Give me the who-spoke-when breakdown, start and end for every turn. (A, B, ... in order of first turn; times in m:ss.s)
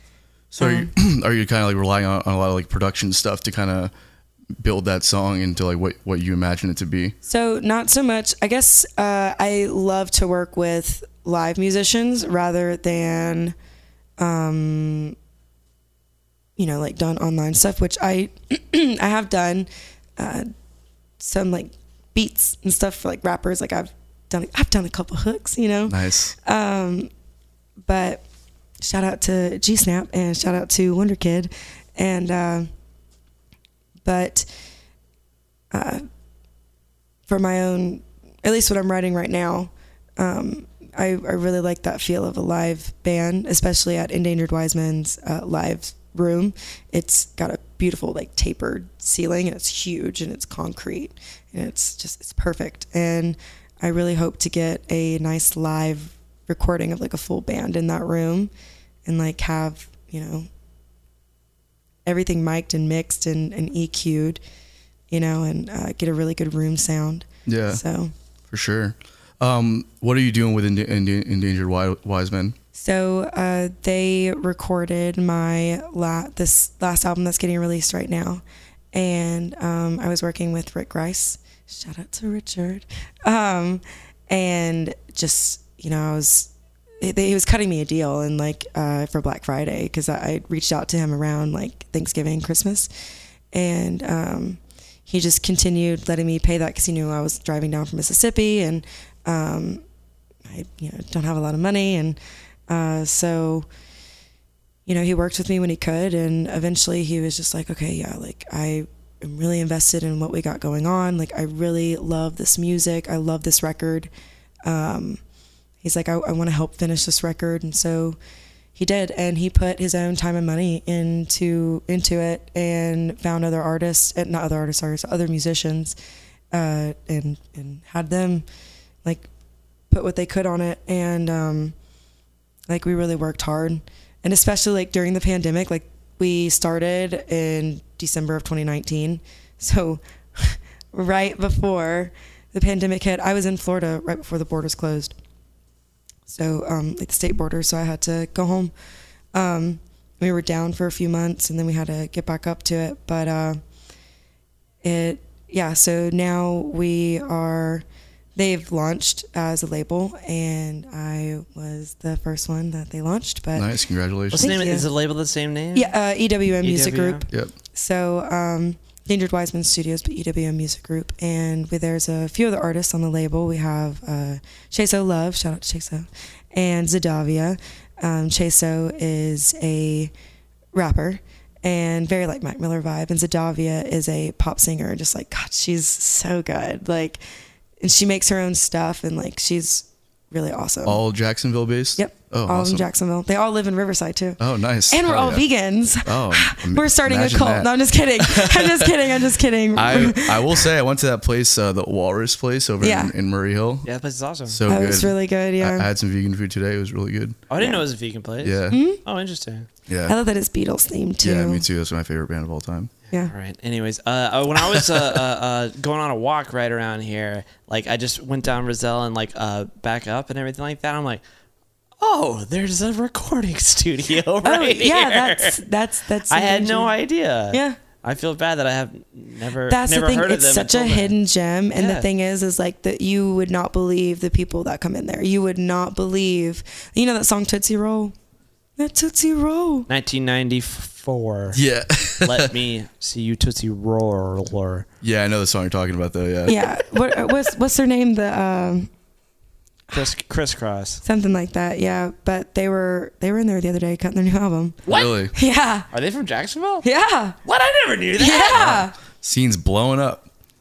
0:00.5-0:03.9 A
0:00.6-0:00.9 B
0:04.6-0:07.2 A
0:07.2-0:13.6 B
0:14.2-0:15.2 B
0:16.6-0:20.5 B
0:21.2-0:27.1 B
0:25.9-0:26.4 A
0:27.8-0:28.2 B
0:28.8-0:32.7 B
0:34.0-0:34.5 B
0:35.7-0:36.0 B
0:37.3-0:58.5 B
0:59.0-1:00.5 B
1:02.1-1:04.4 B
1:05.1-1:08.1 B
1:07.5-1:07.8 A
1:08.5-1:12.6 A
1:12.7-1:18.4 B
1:18.9-1:26.5 B
1:27.0-1:32.9 B
1:33.5-1:39.8 B
1:40.5-1:43.7 B
1:44.9-1:54.1 B
1:54.6-1:55.2 B
1:55.8-1:58.2 B
1:58.8-2:06.0 B
2:06.5-2:08.4 B
2:09.9-2:11.8 B
2:12.7-2:25.2 B
2:26.3-2:28.7 B
2:29.3-2:33.6 B
2:34.8-2:37.8 B
2:38.4-2:43.7 B
2:43.6-2:44.5 A
2:44.3-2:45.9 C
2:44.3-2:44.9 B
2:45.7-3:00.1 B
2:46.6-2:47.3 C
3:00.7-3:07.2 B
3:07.8-3:11.0 B
3:10.8-3:12.8 A
3:12.0-3:20.7 B
3:14.4-3:15.5 A
3:16.0-3:19.0 A
3:19.8-3:23.9 A
3:22.8-3:23.1 B
3:23.8-3:24.6 C
3:24.5-3:27.4 A
3:24.7-3:25.9 B
3:27.5-3:29.7 C
3:28.4-3:28.8 A
3:28.7-3:29.0 B
3:29.9-3:30.2 A
3:30.1-3:31.6 B
3:31.2-3:32.9 A
3:33.2-3:41.2 C
3:42.0-3:45.6 C
3:44.4-3:46.9 B
3:46.3-3:51.2 C
3:47.5-3:47.8 B
3:49.7-3:58.2 B
3:51.7-3:52.1 C
3:58.8-3:59.9 B
3:59.9-4:01.6 C
4:01.5-4:02.5 A
4:02.2-4:04.9 C
4:05.0-4:06.6 A
4:06.5-4:08.9 B
4:09.9-4:11.0 C
4:11.0-4:15.9 B
4:14.9-4:15.2 C
4:14.9-4:15.3 A
4:15.9-4:16.9 C
4:16.8-4:17.4 B
4:17.4-4:18.7 C
4:18.2-4:18.9 B
4:18.6-4:20.3 A